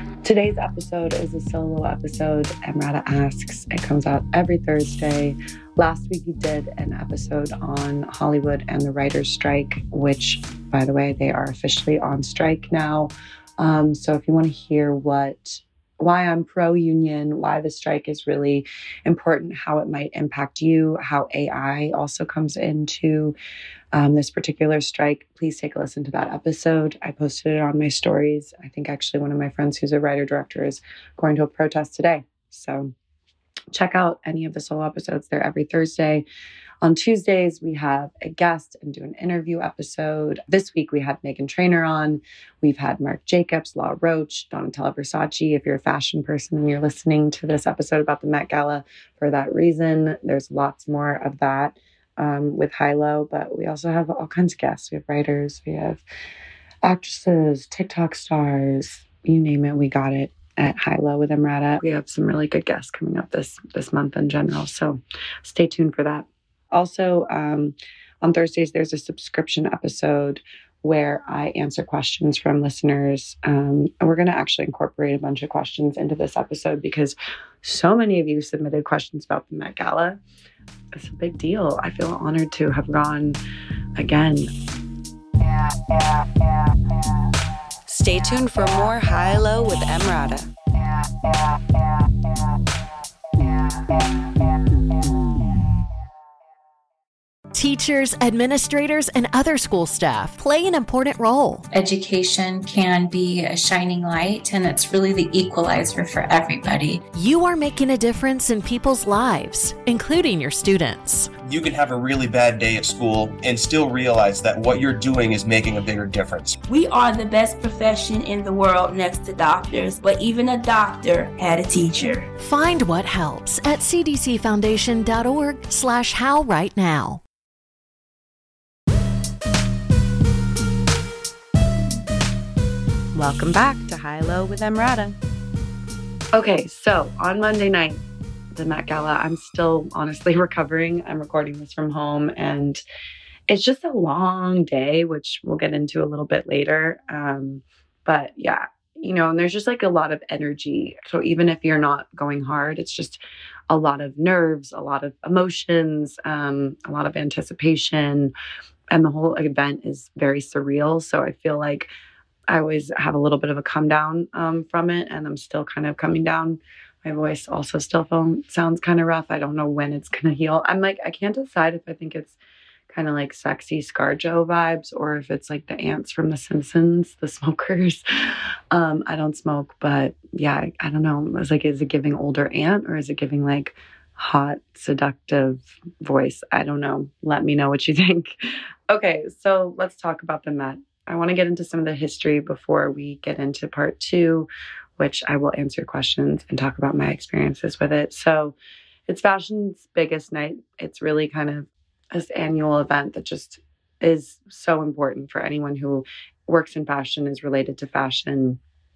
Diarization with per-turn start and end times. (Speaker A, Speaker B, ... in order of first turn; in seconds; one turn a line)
Speaker A: 0.2-23.3
Speaker A: 23.9-32.9
Speaker A: 33.7-36.2
Speaker A: 36.8-56.0
Speaker A: 56.8-80.2
Speaker A: 80.9-83.4
Speaker A: 84.0-84.5
Speaker A: 87.9-90.5
Speaker B: 97.5-101.6
Speaker C: 101.7-107.0
Speaker B: 107.1-111.3
Speaker D: 111.4-116.6
Speaker E: 116.7-122.3
Speaker B: 122.4-127.2
Speaker A: 133.1-135.2
Speaker A: 136.3-138.0
Speaker A: 138.5-142.8
Speaker A: 143.5-158.3
Speaker A: 158.9-161.9
Speaker A: 162.5-172.3
Speaker A: 172.9-178.0
Speaker A: 178.7-188.4
Speaker A: 188.9-198.5
Speaker A: 199.1-208.6